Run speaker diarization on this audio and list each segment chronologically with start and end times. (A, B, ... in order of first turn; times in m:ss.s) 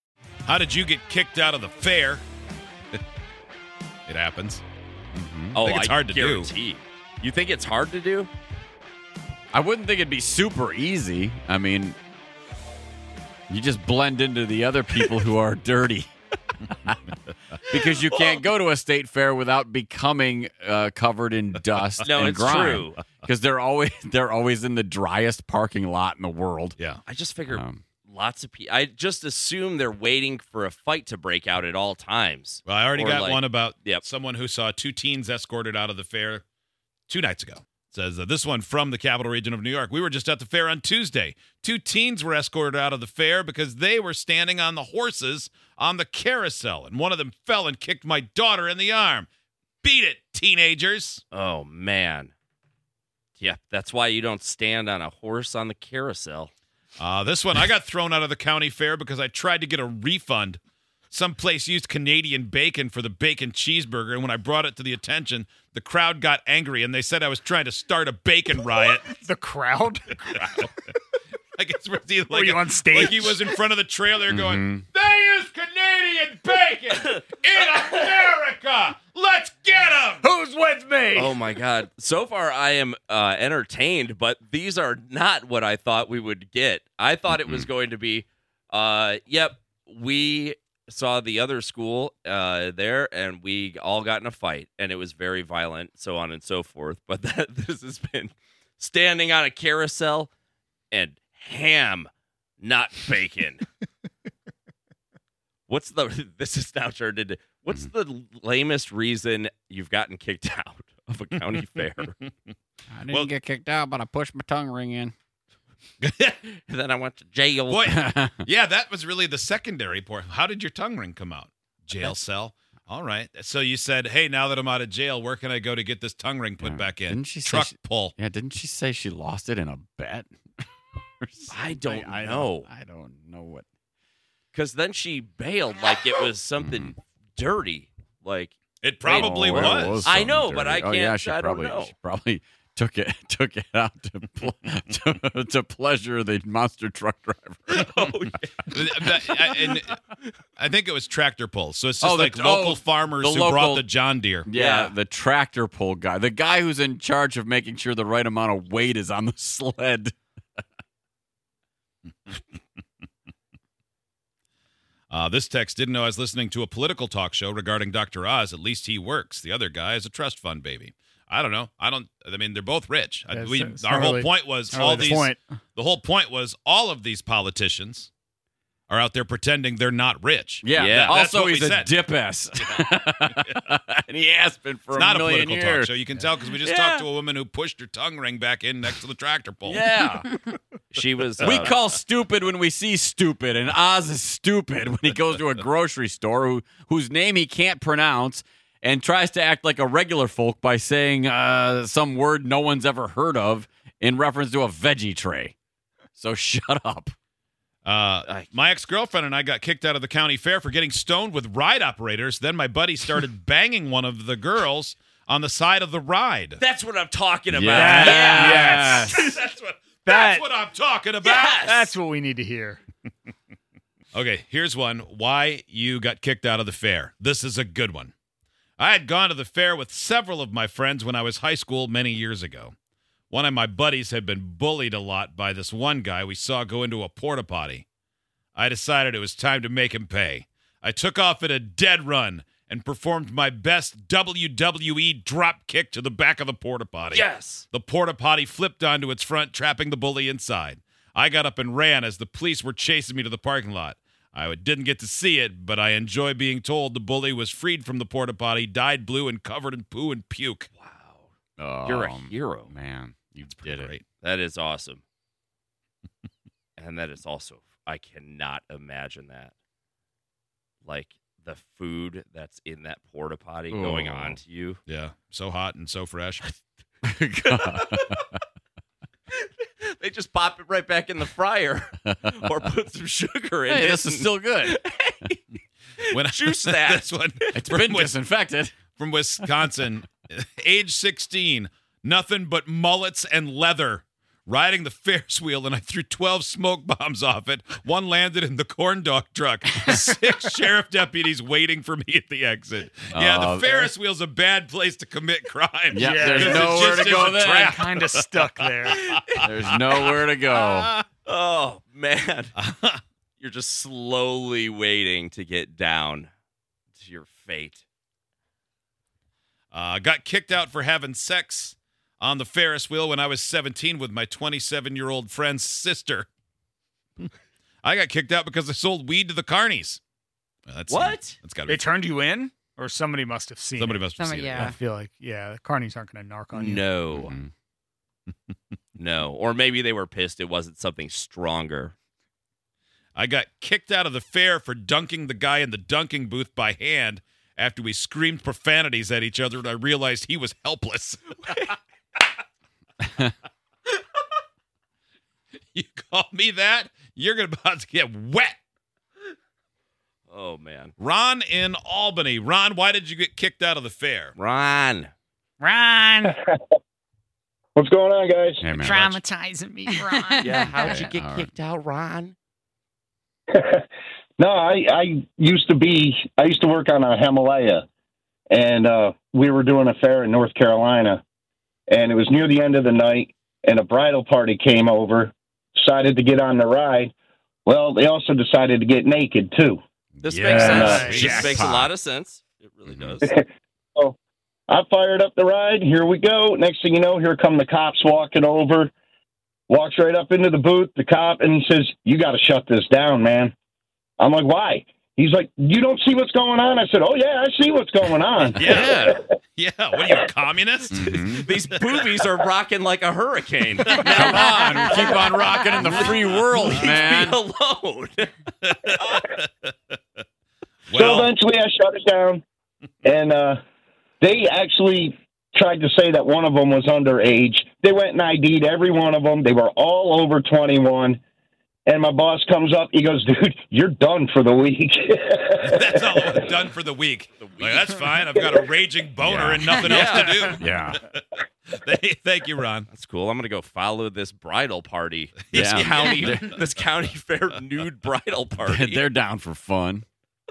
0:00.4-0:02.2 A
0:04.1-0:04.6 A
0:05.1-0:05.6 B
0:05.5-0:08.3 C
0:05.6-0:06.5 A
0:09.5-0:12.0 B
0:13.5-0:16.1 B
0:17.7-0:26.7 B
0:17.8-0:18.5 C
0:22.0-0:23.1 C
0:27.1-0:34.0 C
0:27.5-0:27.8 B
0:32.6-0:36.4 A
0:37.1-0:49.3 A
0:49.8-0:51.2 A
0:51.3-0:52.3 C
0:53.4-0:56.5 C
0:57.0-1:00.6 A
1:01.1-1:09.2 A
1:09.2-1:10.7 D
1:11.6-1:20.2 A
1:12.3-1:13.5 D
1:14.3-1:14.8 B
1:16.9-1:17.2 C
1:20.2-1:21.4 D
1:21.1-1:40.3 C
1:40.9-1:42.1 C
1:42.6-1:43.6 C
1:45.7-1:52.1 C
1:52.9-1:55.1 B
1:56.0-1:56.4 A
1:56.5-1:58.0 C
1:57.7-2:08.1 A
1:57.9-1:58.3 B
2:06.6-2:10.3 B
2:11.2-2:13.6 B
2:11.5-2:12.7 C
2:14.5-2:21.9 C
2:16.6-2:16.9 B
2:18.8-2:20.3 A
2:19.1-2:27.8 B
2:27.7-2:29.9 C
2:28.7-2:29.9 A
2:30.6-2:34.5 A
2:32.0-2:33.8 B
2:34.4-2:40.1 B
2:34.5-2:34.9 C
2:45.1-2:58.1 A
2:53.3-2:55.4 D
2:58.9-3:02.0 A
3:00.6-3:05.9 B
3:00.7-3:01.2 C
3:04.9-3:09.9 A
3:06.6-3:07.0 C
3:09.7-3:10.3 B
3:10.9-3:11.7 C
3:11.4-3:11.8 A
3:11.4-3:25.5 B
3:26.2-3:27.1 B
3:27.8-3:36.6 A
3:36.6-3:39.1 C
3:37.5-3:39.2 B
3:37.7-3:39.4 D
3:38.0-3:41.6 A
3:40.0-3:40.5 D
3:41.2-3:42.0 C
3:41.6-3:42.8 D
3:44.1-3:48.1 A
3:48.8-3:52.7 A
3:53.3-3:57.8 A
3:58.5-4:20.7 A
4:07.1-4:07.6 C
4:20.7-4:21.3 C
4:21.6-4:23.9 B
4:21.8-4:22.7 C
4:23.6-4:24.0 A
4:24.2-4:25.0 C
4:26.8-4:29.5 C
4:30.8-4:34.8 C
4:33.7-4:34.4 B
4:34.9-4:36.4 A
4:37.0-4:38.2 B
4:37.4-4:38.2 C
4:39.4-4:45.4 C
4:43.7-4:44.8 B
4:46.1-4:47.6 C
4:46.1-4:48.1 A
4:47.6-4:48.8 B
4:48.9-5:11.0 A
5:03.1-5:03.8 B
5:05.9-5:07.7 B
5:05.9-5:09.0 D
5:09.0-5:10.1 C
5:09.4-5:10.9 B
5:11.2-5:12.5 C
5:12.6-5:13.0 A
5:13.4-5:16.3 C
5:17.0-5:17.8 C
5:19.7-5:26.3 A
5:27.8-5:30.0 A
5:30.7-5:31.8 A
5:30.9-5:31.4 C
5:31.7-5:36.9 D
5:33.8-5:34.8 A
5:36.5-5:37.4 C
5:37.2-5:37.5 B
5:39.0-5:41.9 C
5:43.2-5:51.4 A
5:55.7-5:58.6 A
6:00.3-6:00.9 C
6:01.0-6:04.3 A
6:04.4-6:05.1 C
6:05.6-6:06.2 D
6:06.2-6:06.6 E
6:07.8-6:08.7 E
6:08.6-6:09.2 B
6:09.5-6:10.5 D
6:10.4-6:12.3 C
6:10.7-6:11.5 B
6:13.5-6:13.8 E
6:14.4-6:17.8 E
6:18.5-6:21.2 E
6:21.9-6:27.1 E
6:27.6-6:29.8 E
6:30.2-6:31.9 B
6:30.2-6:33.3 C
6:30.4-6:31.6 D
6:30.6-6:31.3 E
6:32.9-6:33.2 B
6:33.2-6:34.2 E
6:34.7-6:38.9 E
6:39.7-6:43.5 E
6:44.2-6:49.2 E
6:48.6-6:52.3 A
6:50.9-6:58.3 C
6:51.0-6:51.4 B
6:53.8-6:54.4 A
6:54.2-6:57.4 B
6:58.7-6:59.0 A
6:58.8-6:59.3 C
7:00.9-7:01.3 A
7:00.9-7:02.4 E
7:03.0-7:03.6 E
7:04.2-7:11.2 E
7:11.8-7:16.5 E
7:15.6-7:22.9 A
7:17.4-7:18.1 C
7:18.4-7:18.6 E
7:19.2-7:19.7 B
7:19.7-7:20.4 C
7:20.6-7:21.0 B
7:22.9-7:29.0 C
7:25.5-7:26.5 A
7:25.6-7:26.0 B
7:28.6-7:30.0 B